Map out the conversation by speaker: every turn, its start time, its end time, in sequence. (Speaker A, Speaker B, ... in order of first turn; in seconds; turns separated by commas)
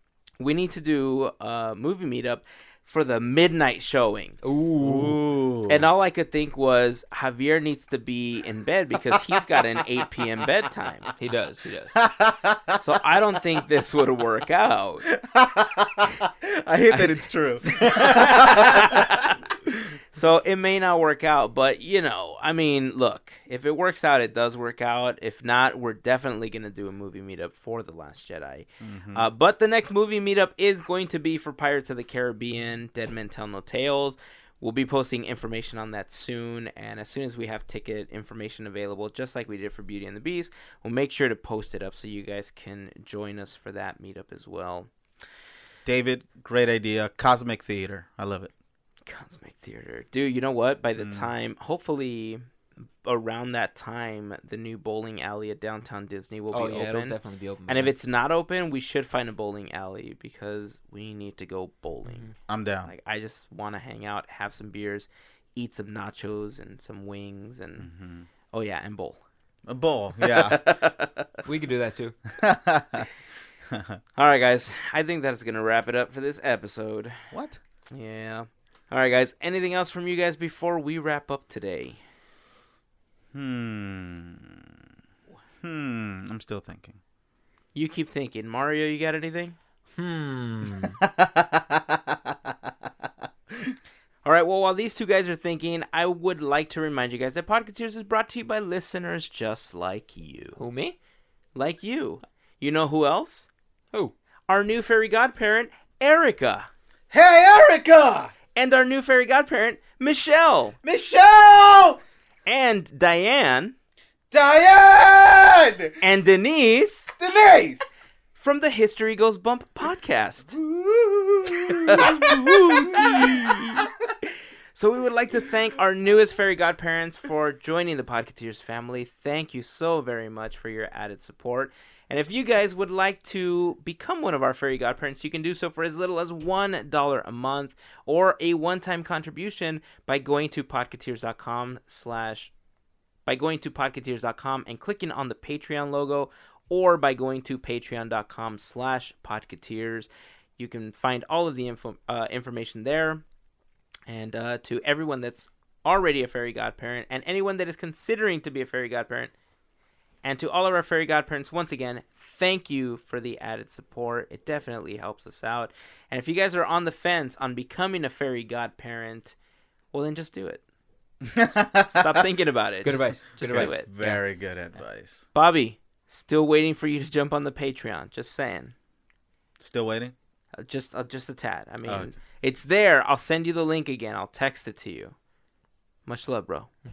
Speaker A: 0.4-4.4, Speaker B: 4.4-5.2, Speaker C: 4.8-5.9, Speaker A: 5.7-11.1, Speaker C: 9.3-9.6, Speaker B: 11.2-12.0, Speaker C: 11.9-12.8, Speaker A: 12.8-15.1, Speaker C: 15.1-19.1, Speaker A: 16.9-19.3, Speaker B: 17.7-19.2, Speaker A: 20.1-44.9, Speaker C: 28.8-29.3, Speaker C: 45.9-48.5, Speaker A: 49.1-52.4, Speaker C: 51.0-51.3, Speaker A: 53.0-57.1, Speaker B: 56.5-57.9, Speaker A: 57.7-62.3, Speaker C: 62.5-62.9, Speaker A: 62.9-67.9, Speaker C: 67.8-68.3, Speaker A: 68.5-69.2, Speaker C: 69.7-70.6, Speaker A: 70.2-71.4, Speaker B: 71.5-72.2, Speaker C: 72.3-73.1, Speaker C: 73.7-74.0, Speaker A: 74.2-77.3, Speaker C: 77.3-77.6, Speaker A: 77.9-82.0, Speaker C: 83.3-84.8, Speaker C: 85.6-87.0, Speaker A: 87.8-89.6, Speaker B: 90.0-91.0, Speaker C: 91.0-92.9, Speaker A: 94.2-100.6, Speaker B: 100.6-101.0, Speaker A: 101.5-103.5, Speaker A: 104.5-106.7, Speaker C: 107.1-108.3, Speaker A: 108.5-110.8, Speaker C: 110.8-112.0, Speaker A: 112.5-113.8, Speaker C: 114.3-116.0, Speaker A: 116.0-117.1, Speaker C: 117.2-117.9, Speaker A: 118.3-120.6, Speaker C: 120.5-123.9, Speaker A: 121.7-123.9, Speaker A: 124.8-142.5, Speaker A: 143.3-153.2, Speaker A: 154.1-159.3, Speaker A: 160.2-169.3, Speaker A: 169.9-170.6, Speaker C: 171.2-172.2, Speaker A: 171.5-173.9, Speaker B: 172.8-174.2, Speaker C: 173.4-175.2, Speaker A: 175.3-178.7, Speaker C: 179.6-180.1, Speaker A: 180.6-185.2, Speaker C: 181.9-182.1, Speaker A: 186.1-186.7